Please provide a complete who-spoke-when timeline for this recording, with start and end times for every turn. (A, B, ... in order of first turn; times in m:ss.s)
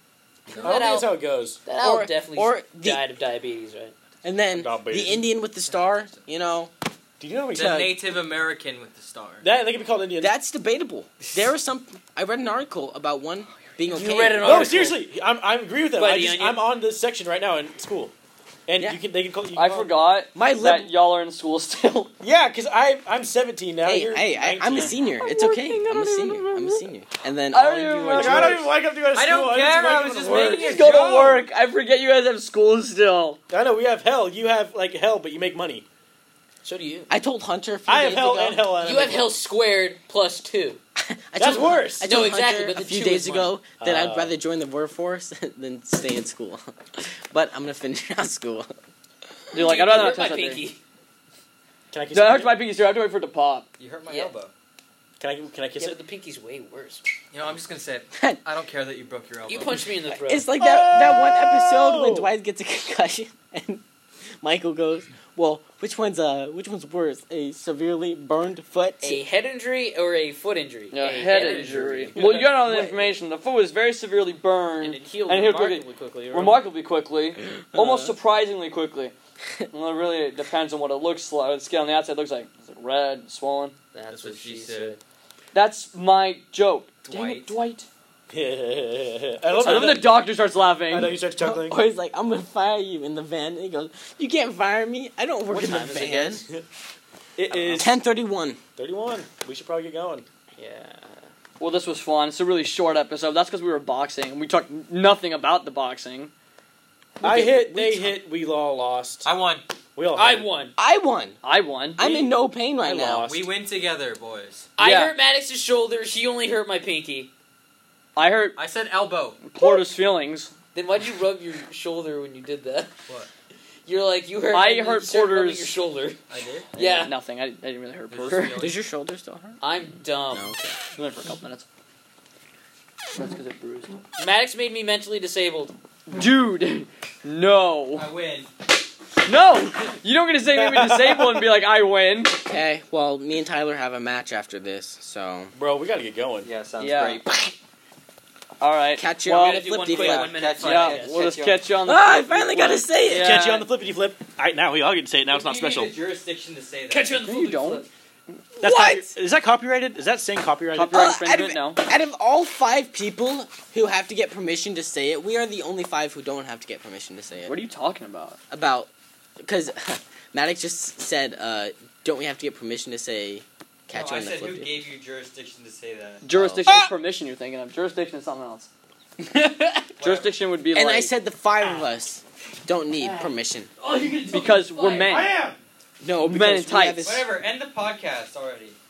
0:00.5-0:00.8 A
0:00.5-0:03.9 B
0:00.6-0:01.6 C
0:01.8-0:03.0 D
0:04.2-0:06.7 D
0:04.5-0:05.2 C
0:05.7-0:06.2 A
0:07.2-0:07.8 C
0:07.5-0:09.5 A
0:07.5-0:08.0 D
0:09.4-0:10.4 C
0:10.2-0:14.8 D
0:13.9-0:15.0 B
0:14.4-0:18.1 C
0:16.0-0:16.6 B
0:18.7-0:19.9 C
0:19.5-0:22.1 E
0:20.3-0:20.9 D
0:22.2-0:25.0 C
0:23.8-0:28.6 D
0:24.9-0:26.8 E
0:27.5-0:28.6 E
0:28.1-0:30.9 C
0:29.1-0:31.4 A
0:30.2-0:33.4 E
0:33.5-0:35.8 C
0:36.6-0:37.1 B
0:37.1-0:38.6 D
0:37.8-0:39.3 C
0:38.7-0:40.8 B
0:41.0-0:48.7 D
0:41.4-0:42.1 C
0:42.0-0:43.6 B
0:43.8-0:44.4 C
0:49.5-0:50.6 E
0:49.5-0:50.8 B
0:51.9-0:52.6 C
0:52.1-0:53.7 E
0:53.8-0:54.5 A
0:55.2-0:56.0 C
0:55.8-0:57.0 B
0:57.3-0:59.8 A
0:59.5-1:00.5 B
1:00.1-1:03.8 D
1:00.6-1:02.3 C
1:04.4-1:09.2 D
1:09.0-1:12.2 B
1:10.9-1:19.1 E
1:12.1-1:12.6 C
1:14.8-1:16.6 B
1:17.7-1:18.2 D
1:19.7-1:23.7 E
1:23.9-1:25.0 B
1:24.1-1:25.0 A
1:25.5-1:27.9 E
1:27.0-1:27.6 A
1:28.3-1:31.8 C
1:29.6-1:31.2 E
1:31.4-1:36.4 D
1:35.5-1:36.4 B
1:35.5-1:36.6 C
1:37.4-1:37.9 C
1:37.5-1:37.8 E
1:37.8-1:38.6 D
1:38.8-1:40.2 C
1:40.6-1:41.2 B
1:41.6-1:46.3 E
1:47.2-1:48.2 D
1:47.2-1:49.3 C
1:49.2-1:49.6 A
1:50.0-1:50.5 C
1:50.1-1:50.7 B
1:50.8-1:51.4 D
1:51.4-1:52.2 E
1:52.0-1:53.2 D
1:52.8-1:53.5 C
1:53.2-1:54.7 A
1:54.8-1:57.3 B
1:54.8-1:55.2 E
1:58.2-1:58.6 E
1:58.6-1:59.4 A
1:59.4-2:00.5 E
2:00.7-2:02.9 B
2:03.8-2:06.2 B
2:04.5-2:05.7 E
2:06.3-2:06.7 A
2:06.7-2:07.1 B
2:06.8-2:08.7 E
2:08.1-2:08.8 A
2:08.6-2:09.6 D
2:09.6-2:10.5 B
2:10.3-2:10.8 D
2:11.0-2:11.6 E
2:13.1-2:14.0 E
2:14.2-2:15.7 B
2:16.1-2:18.1 E
2:17.9-2:18.5 A
2:19.2-2:22.4 E
2:20.4-2:21.5 C
2:22.4-2:25.5 D
2:25.5-2:26.5 C
2:26.4-2:27.2 A
2:26.8-2:27.5 E
2:28.6-2:30.0 E
2:29.0-2:30.3 D
2:29.4-2:31.2 B
2:29.8-2:31.6 A
2:30.6-2:33.7 E
2:31.8-2:33.3 D
2:33.0-2:35.9 C
2:35.3-2:37.1 A
2:36.9-2:37.9 B
2:37.2-2:37.8 E
2:38.6-2:41.0 C
2:38.6-2:39.1 D
2:40.7-2:41.8 E
2:40.9-2:47.6 D
2:47.5-2:48.4 E
2:48.5-2:48.9 D
2:49.4-2:54.8 D
2:53.9-2:56.2 A
2:56.2-2:58.7 E
2:56.3-2:56.8 D
2:59.3-2:59.9 B
3:00.0-3:00.3 A
3:00.0-3:01.1 E
3:00.7-3:03.7 D
3:03.0-3:05.3 B
3:04.3-3:05.3 E
3:05.0-3:05.6 C
3:06.0-3:07.3 D
3:06.2-3:07.0 E
3:07.0-3:08.8 A